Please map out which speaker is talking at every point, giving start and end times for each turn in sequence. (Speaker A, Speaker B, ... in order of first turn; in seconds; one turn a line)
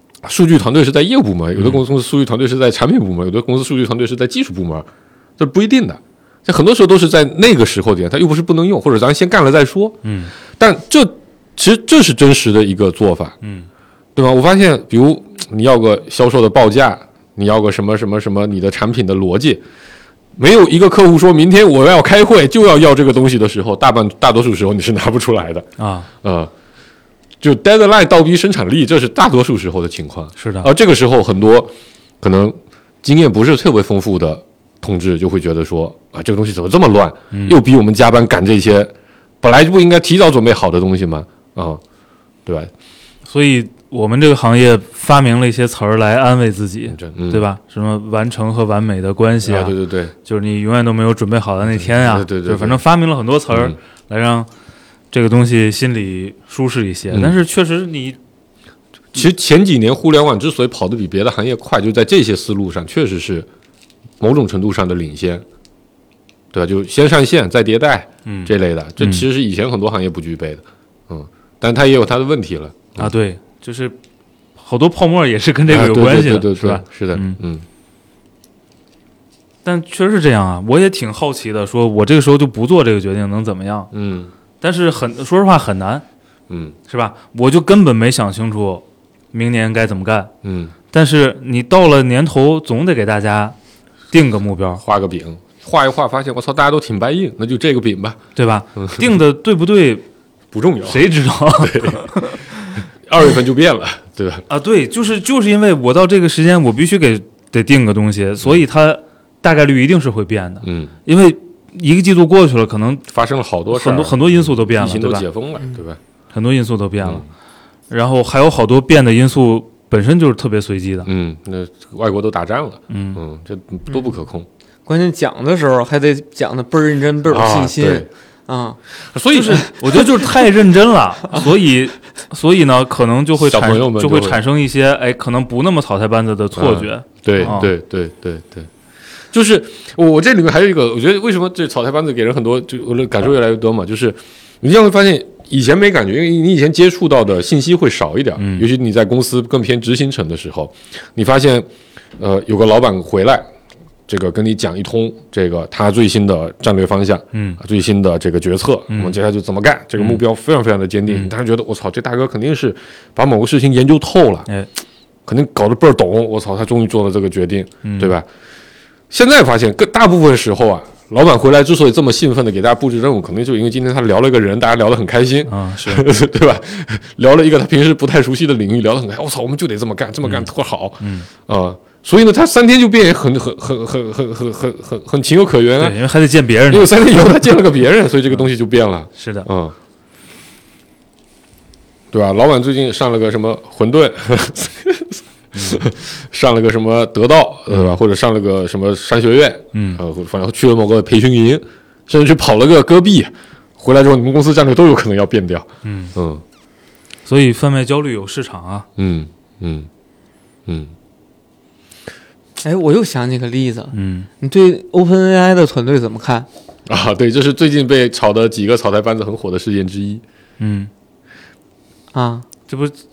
Speaker A: 0.2-4.9
Speaker B: 1.6-1.8
Speaker A: 5.4-13.4
Speaker B: 10.0-10.3
Speaker A: 14.1-19.6
Speaker A: 20.4-25.7
Speaker B: 25.8-26.1
Speaker A: 26.2-26.5
Speaker A: 27.4-41.8
Speaker B: 30.4-30.7
Speaker B: 37.3-37.6
Speaker A: 42.5-42.7
Speaker B: 43.3-54.5
Speaker A: 46.9-47.5
Speaker A: 49.4-50.1
Speaker A: 51.7-52.8
Speaker A: 53.5-53.8
Speaker B: 55.1-58.2
Speaker A: 57.1-57.4
Speaker A: 59.1-63.5
Speaker A: 64.2-65.5
Speaker A: 66.5-73.1
Speaker B: 68.3-69.3
Speaker B: 73.0-74.0
Speaker B: 74.6-77.4
Speaker A: 75.7-77.7
Speaker B: 79.6-83.9
Speaker A: 83.9-84.3
Speaker B: 84.6-86.0
Speaker A: 86.5-86.8
Speaker B: 86.9-90.3
Speaker A: 90.4-90.7
Speaker B: 90.9-93.5
Speaker B: 94.1-94.8
Speaker A: 94.8-98.2
Speaker B: 98.4-100.0
Speaker A: 98.8-99.0
Speaker A: 100.5-101.1
Speaker B: 100.8-102.5
Speaker A: 101.6-102.1
Speaker A: 103.1-104.5
Speaker B: 104.5-113.0
Speaker A: 110.6-110.9
Speaker A: 113.1-116.0
Speaker B: 113.7-115.3
Speaker B: 116.3-117.3
Speaker B: 117.9-121.1
Speaker A: 121.0-124.5
Speaker B: 122.9-123.2
Speaker C: 124.9-128.8
Speaker A: 127.3-128.1
Speaker A: 129.1-130.1
Speaker B: 129.3-137.7
Speaker A: 133.4-134.4
Speaker A: 136.6-138.7
Speaker A: 139.3-151.7
Speaker B: 148.4-148.7
Speaker A: 152.2-153.5
Speaker A: 154.1-164.5
Speaker B: 157.3-157.6
Speaker B: 158.9-159.2
Speaker B: 160.0-160.2
Speaker A: 165.3-168.3
Speaker B: 167.8-168.1
Speaker A: 169.1-186.0
Speaker B: 175.5-176.1
Speaker B: 181.0-181.3
Speaker B: 185.8-187.3
Speaker A: 186.7-189.8
Speaker B: 189.2-189.5
Speaker A: 192.1-206.4
Speaker B: 195.5-195.8
Speaker B: 197.7-198.0
Speaker B: 199.7-200.0
Speaker B: 205.8-206.1
Speaker B: 207.2-208.9
Speaker A: 209.0-209.9
Speaker A: 210.7-210.9
Speaker C: 212.6-216.5
Speaker B: 213.9-214.3
Speaker A: 216.9-220.2
Speaker B: 220.6-220.9
Speaker C: 222.1-222.4
Speaker B: 222.7-222.9